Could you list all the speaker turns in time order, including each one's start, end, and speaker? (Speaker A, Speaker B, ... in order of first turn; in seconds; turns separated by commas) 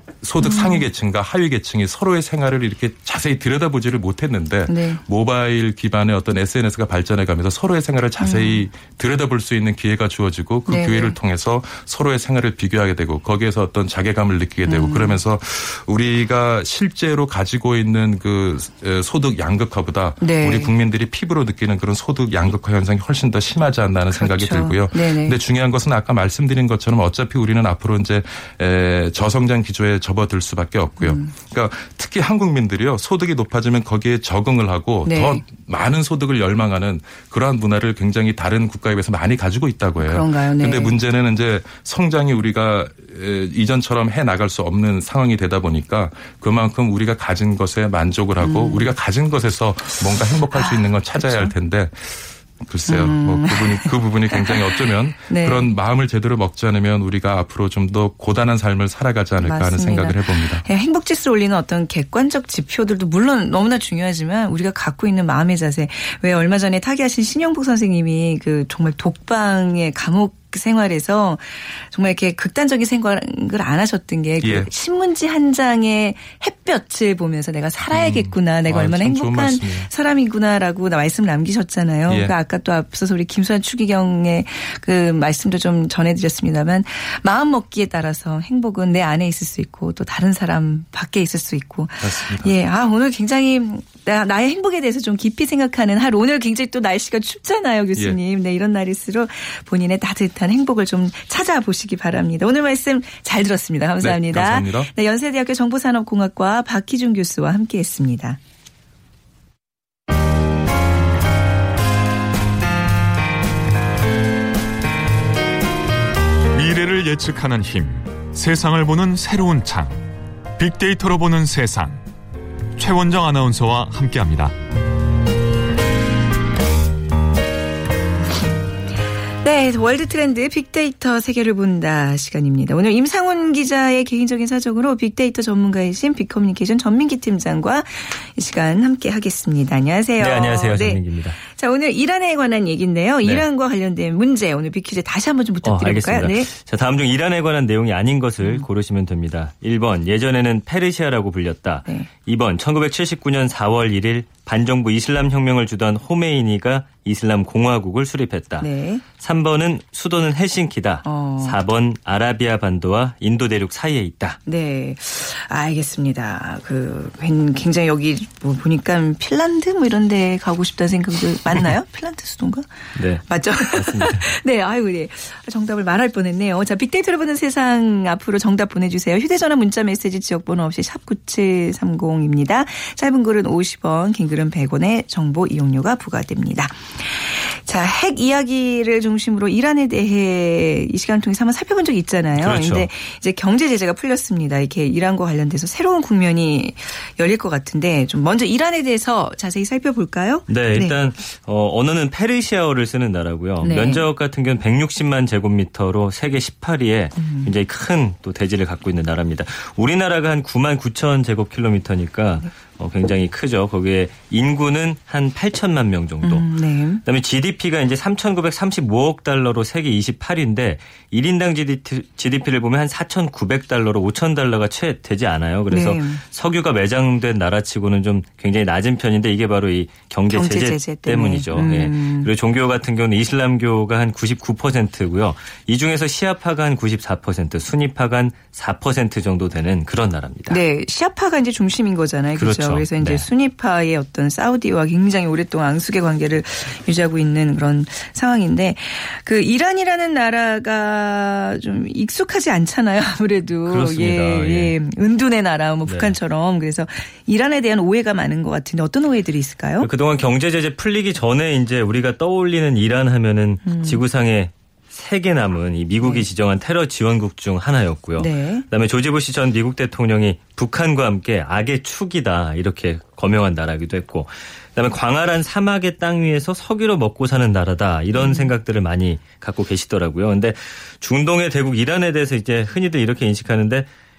Speaker A: 0.2-60.6, Speaker B: 0.4-0.9, Speaker B: 4.7-5.0, Speaker B: 8.2-8.7, Speaker B: 10.7-11.2, Speaker B: 14.7-15.2, Speaker B: 20.2-20.7, Speaker B: 24.1-25.4, Speaker B: 31.0-31.3, Speaker B: 35.1-35.4, Speaker B: 40.0-41.0, Speaker B: 48.4-48.9, Speaker B: 50.5-51.5, Speaker B: 52.9-55.7, Speaker B: 59.4-108.4, Speaker A: 74.4-74.7, Speaker A: 77.9-79.9, Speaker A: 82.1-82.3, Speaker A: 92.0-92.5, Speaker A: 104.0-104.9, Speaker C: 116.5-120.0, Speaker C: 120.6-122.0, Speaker C: 122.8-124.5, Speaker B: 129.4-146.5, Speaker D: 140.2-141.4, Speaker D: 145.6-158.7, Speaker B: 148.4-148.7, Speaker B: 158.6-159.0, Speaker D: 159.2-164.4, Speaker B: 161.0-161.6, Speaker B: 164.5-172.7, Speaker D: 173.0-174.3, Speaker B: 173.3-200.9, Speaker D: 192.4-192.9, Speaker D: 200.5-216.5, Speaker B: 203.6-204.0, Speaker B: 207.2-207.5, Speaker B: 216.2-217.0, Speaker D: 217.0-240.6, Speaker B: 225.7-226.2, Speaker B: 230.3-232.3, Speaker B: 240.5-259.9, Speaker D: 242.4-243.2, Speaker D: 253.7-254.8, Speaker D: 255.9-256.1, Speaker D: 259.8-283.9, Speaker B: 263.6-264.0, Speaker B: 268.2-268.6, Speaker B: 278.1-278.5